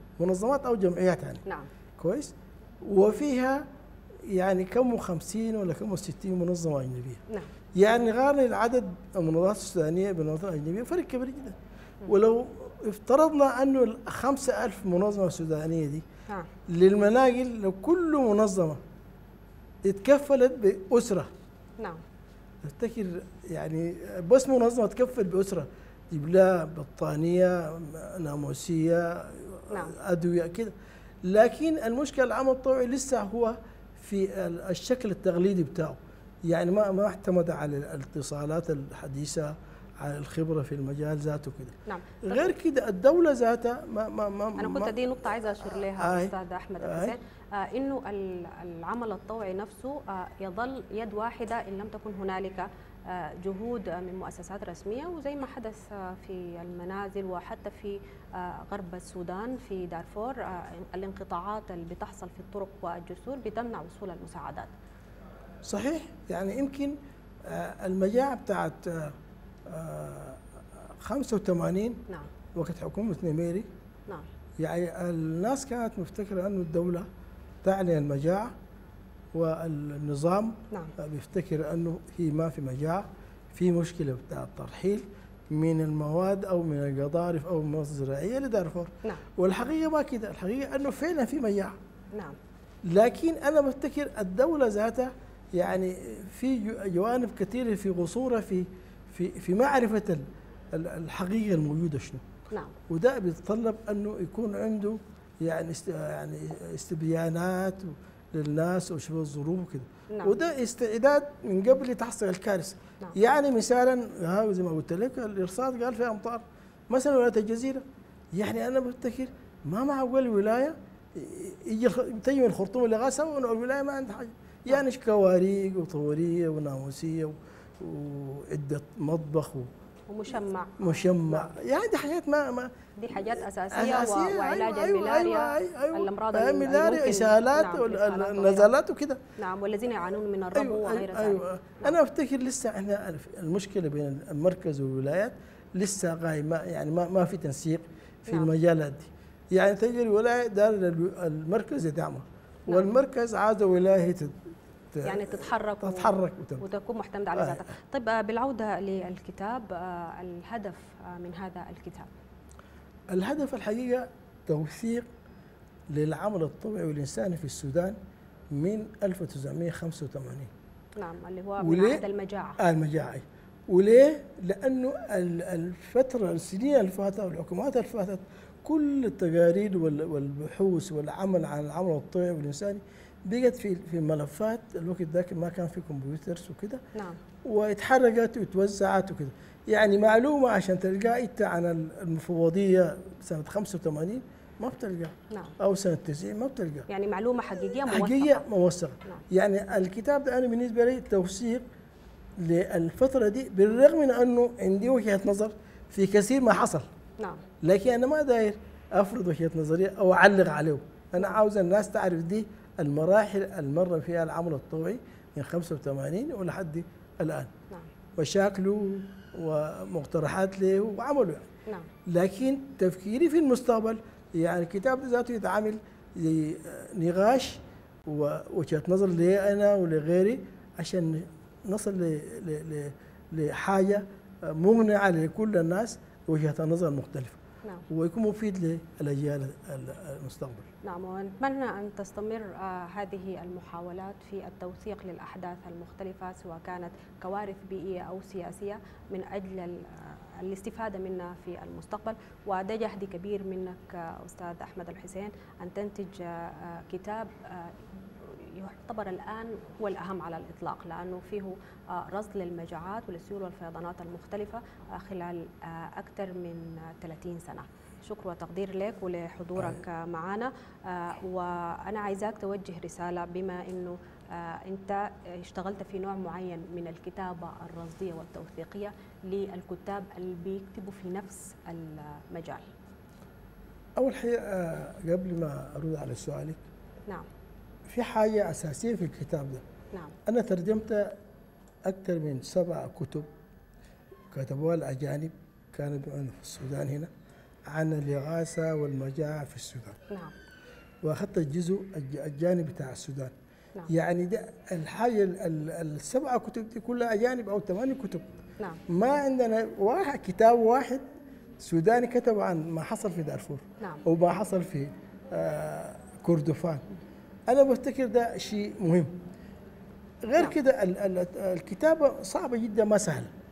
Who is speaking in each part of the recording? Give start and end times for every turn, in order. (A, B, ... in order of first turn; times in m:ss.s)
0:00.2-0:01.4 A
0:02.0-0:03.6 A
0:04.2-0:07.2 A
0:07.8-0:16.0 A
0:16.7-0:18.8 A
0:19.8-0:21.3 A
0:22.6-0:30.7 A
0:29.7-0:30.0 B
0:31.2-0:45.0 A
0:41.9-0:42.5 B
0:44.6-1:04.7 B
0:46.0-0:47.2 A
1:05.6-1:13.7 A
1:14.6-1:17.1 A
1:17.6-1:18.5 A
1:19.3-1:31.8 A
1:32.1-1:32.4 B
1:32.8-1:42.2 A
1:42.5-1:42.8 B
1:42.9-2:09.7 A
1:50.1-1:50.4 B
2:10.1-2:11.5 B
2:10.8-2:19.2 A
2:13.0-2:18.7 B
2:19.4-2:22.0 B
2:20.6-2:34.4 A
2:32.7-2:32.9 B
2:34.9-2:36.7 A
2:35.0-2:42.1 B
2:37.3-2:37.7 A
2:43.1-2:45.1 A
2:45.9-2:48.0 A
2:48.5-2:50.5 A
2:51.0-2:52.6 B
2:51.6-2:52.0 A
2:52.6-3:06.8 A
3:06.9-3:07.2 B
3:07.4-3:16.9 A
3:16.9-3:18.4 B
3:17.8-3:21.6 A
3:22.4-3:26.9 A
3:27.2-3:27.4 B
3:27.6-3:37.5 A
3:38.2-3:41.5 A
3:42.1-4:00.7 A
4:00.8-4:42.7 B
4:44.0-4:46.6 A
4:47.9-4:49.6 A
4:49.9-4:50.2 B
4:50.3-4:51.2 A
4:51.8-4:53.3 A
4:54.3-4:57.1 A
4:57.7-5:00.0 A
5:00.1-5:00.4 B
5:01.0-5:03.3 A
5:03.9-5:08.3 A
5:08.9-5:11.0 A
5:11.6-5:16.8 A
5:17.5-5:19.2 A
5:20.2-5:23.3 A